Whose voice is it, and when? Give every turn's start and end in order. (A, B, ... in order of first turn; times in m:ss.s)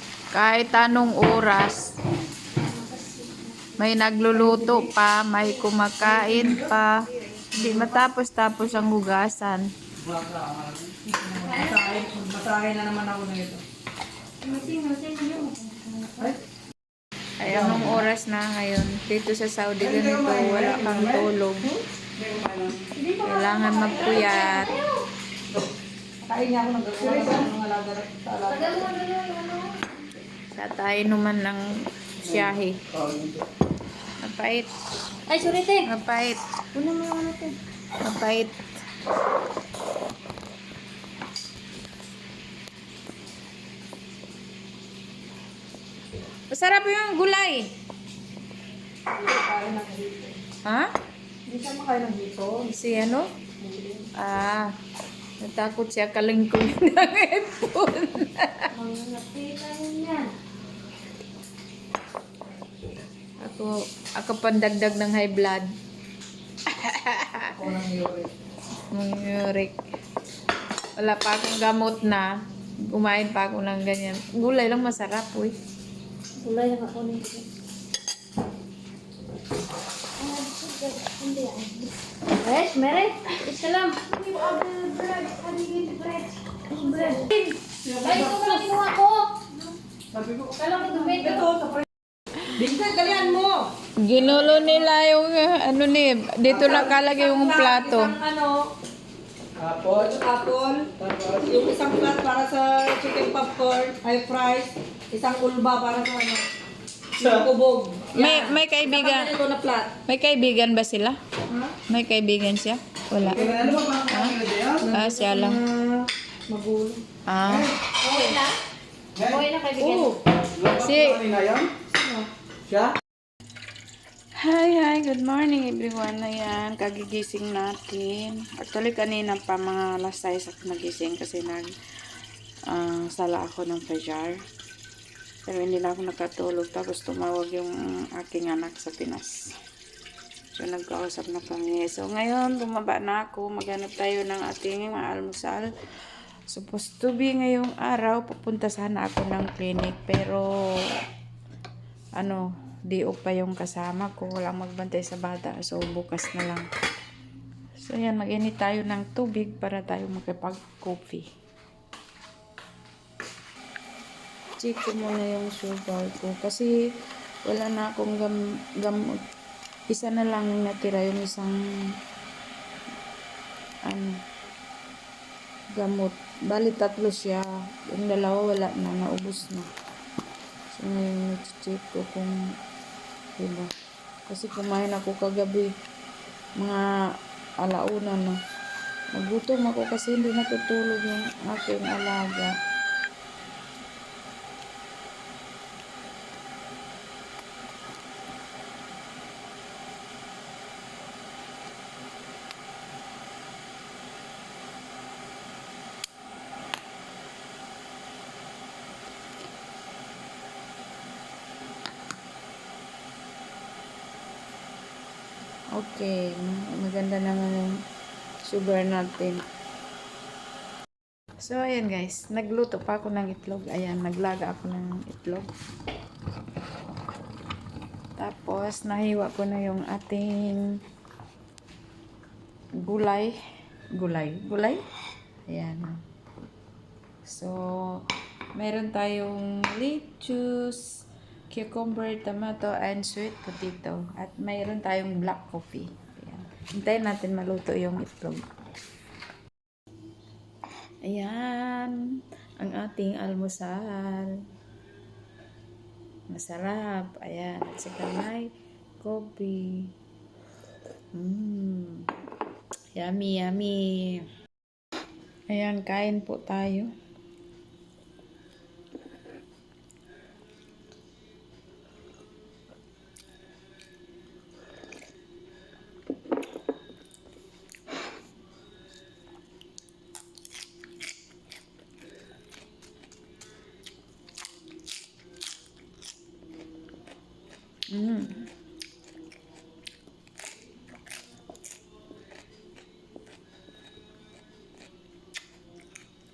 0:00.3-0:01.9 A
0:02.6-0:03.4 B
0:03.8-0:09.7 A
0:04.4-0:04.8 C
0:10.0-0:10.9 D
0:11.1-0:13.6 C
0:11.4-0:12.1 B
0:14.4-0:16.3 B
0:17.4-0:21.8 A
0:19.8-0:21.2 D
0:22.2-0:22.8 D
0:22.9-0:25.0 B
0:23.2-0:24.7 A
0:26.2-0:29.0 C
0:27.0-0:27.4 D
0:28.4-0:30.0 B
0:30.5-0:31.6 A
0:32.2-0:32.8 A
0:32.2-0:33.4 D
0:34.2-0:34.7 A
0:35.3-0:35.9 B
0:35.8-0:36.4 A
0:36.7-0:37.6 B
0:38.0-0:38.6 A
0:46.5-0:47.7 A
0:49.1-0:50.4 C
0:50.6-0:50.9 A
0:51.5-0:52.8 C
0:52.7-0:53.3 A
0:53.6-0:54.1 C
0:54.1-0:54.7 A
0:55.4-0:58.7 A
0:58.7-1:00.3 B
1:03.4-1:05.7 A
1:06.7-1:07.5 A
1:07.5-1:08.3 C
1:08.9-1:09.8 A
1:11.0-1:15.6 A
1:16.4-1:17.5 B
1:20.2-1:29.3 B
1:28.0-1:28.5 C
1:30.1-1:30.4 D
1:30.5-1:31.5 B
1:31.0-1:31.8 C
1:32.4-1:33.7 C
1:34.0-1:38.2 A
1:36.5-1:38.7 C
1:39.6-1:40.1 D
1:39.8-1:46.4 C
1:41.0-1:41.5 D
1:47.1-1:49.9 C
1:48.1-1:49.3 A
1:50.1-1:51.2 A
1:51.9-1:55.6 A
1:53.3-1:54.9 D
1:54.8-1:57.0 C
1:57.2-1:57.7 A
1:57.6-1:58.4 C
1:58.0-1:58.5 B
1:59.2-2:00.2 B
1:59.8-2:01.3 A
2:00.5-2:01.8 D
2:01.9-2:02.3 C
2:02.7-2:02.9 D
2:04.4-2:11.7 A
2:12.7-2:14.4 A
2:15.4-2:19.5 A
2:20.6-2:25.7 A
2:26.5-2:30.4 A
2:32.2-2:36.7 A
2:37.8-2:41.2 A
2:44.6-2:46.7 A
2:47.4-2:49.2 A
2:49.9-2:51.6 A
2:53.8-2:54.2 A
2:55.8-2:59.7 A
3:00.7-3:02.4 A
3:03.4-3:03.7 A
3:04.3-3:05.7 A
3:06.6-3:06.8 A
3:07.6-3:08.4 A
3:09.1-3:12.5 A
3:35.7-3:37.8 A
3:38.4-3:39.4 A
3:41.4-3:45.5 A
3:48.2-3:50.8 A
3:52.8-3:53.3 A
3:54.0-3:54.8 A
3:55.5-3:56.0 A
3:57.2-4:08.4 A
4:11.0-4:12.0 A
4:12.6-4:14.4 A
4:16.3-4:18.5 A
4:19.0-4:19.9 A
4:21.1-4:22.1 A
4:22.9-4:24.3 A
4:25.5-4:26.9 A
4:47.9-4:48.5 A